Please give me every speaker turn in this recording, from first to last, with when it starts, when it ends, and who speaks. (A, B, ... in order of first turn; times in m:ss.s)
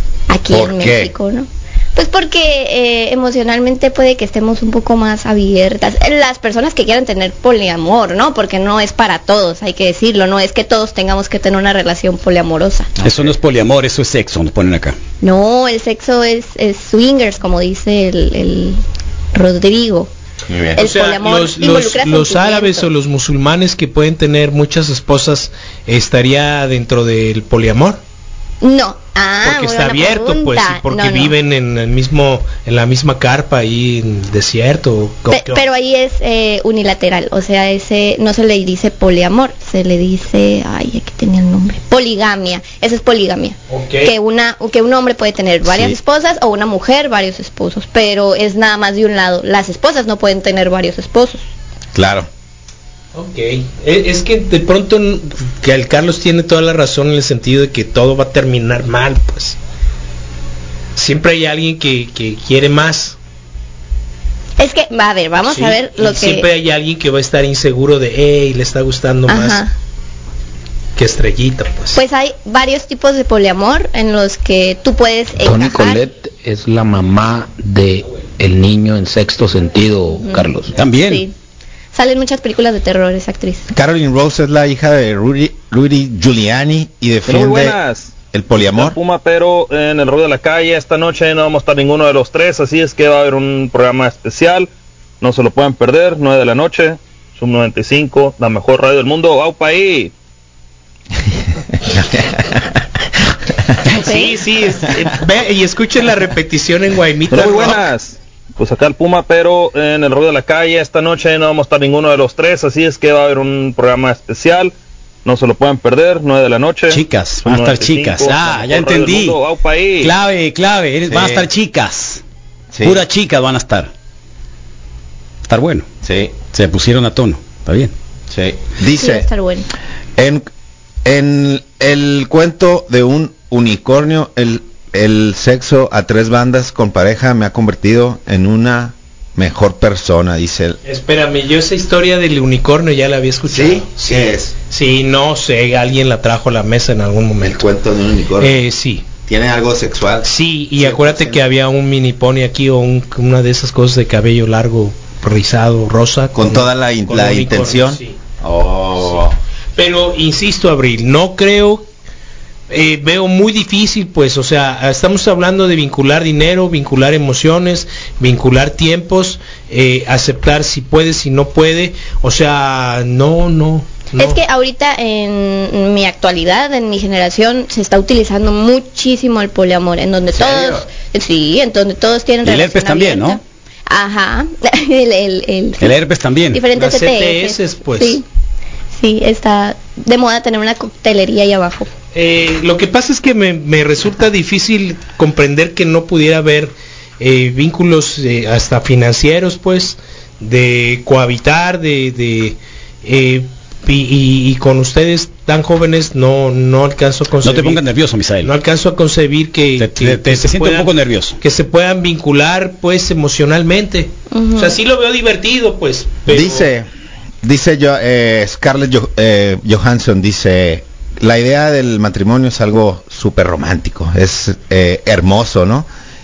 0:00.3-0:12.9 A
0:00.5-0:01.1 B
0:13.0-0:13.3 B
0:13.0-0:15.0 C
0:15.2-0:18.8 A
0:19.3-0:20.1 A
0:20.5-0:20.8 B
0:20.8-0:28.0 D
0:20.8-0:22.9 A
0:28.6-0:31.4 A
0:29.4-0:35.6 D
0:35.3-0:51.5 A
0:43.7-0:44.1 D
0:45.6-0:46.0 B
0:51.9-0:52.3 B
0:53.1-0:59.6 D
1:01.0-1:03.2 D
1:04.6-1:06.5 A
1:05.4-1:09.6 D
1:09.3-1:09.7 A
1:11.0-1:12.0 D
1:11.9-1:16.0 A
1:15.4-1:20.7 E
1:20.2-1:21.3 A
1:20.8-1:21.2 C
1:21.9-1:23.7 A
1:23.7-1:27.8 B
1:27.2-1:34.7 F
1:28.3-1:29.0 B
1:35.2-1:40.1 F
1:41.8-1:42.7 B
1:43.9-1:47.8 D
1:43.9-1:44.3 A
1:47.3-1:54.7 F
1:55.2-2:00.1 F
1:56.9-1:59.4 C
2:00.0-2:02.2 C
2:01.1-2:01.5 B
2:02.7-2:03.0 B
2:02.8-2:03.9 C
2:05.5-2:05.8 C
2:06.0-2:06.3 B
2:06.5-2:07.9 C
2:08.3-2:09.3 B
2:08.9-2:09.7 A
2:10.2-2:10.5 B
2:11.0-2:20.8 B
2:20.8-2:27.6 D
2:23.5-2:24.5 B
2:27.4-2:28.6 B
2:28.4-2:29.1 D
2:29.2-2:31.5 B
2:30.2-2:38.2 D
2:36.3-2:39.3 B
2:39.8-2:41.9 D
2:42.7-2:54.4 D
2:54.2-3:05.9 A
3:00.3-3:00.8 B
3:02.4-3:03.4 C
3:05.8-3:06.6 C
3:06.5-3:08.2 A
3:06.7-3:08.2 D
3:08.9-3:11.9 A
3:12.1-3:27.8 D
3:27.4-3:28.5 C
3:28.4-3:36.7 D
3:29.8-3:31.4 C
3:34.3-3:34.8 A
3:36.3-3:36.9 B
3:37.4-3:45.9 B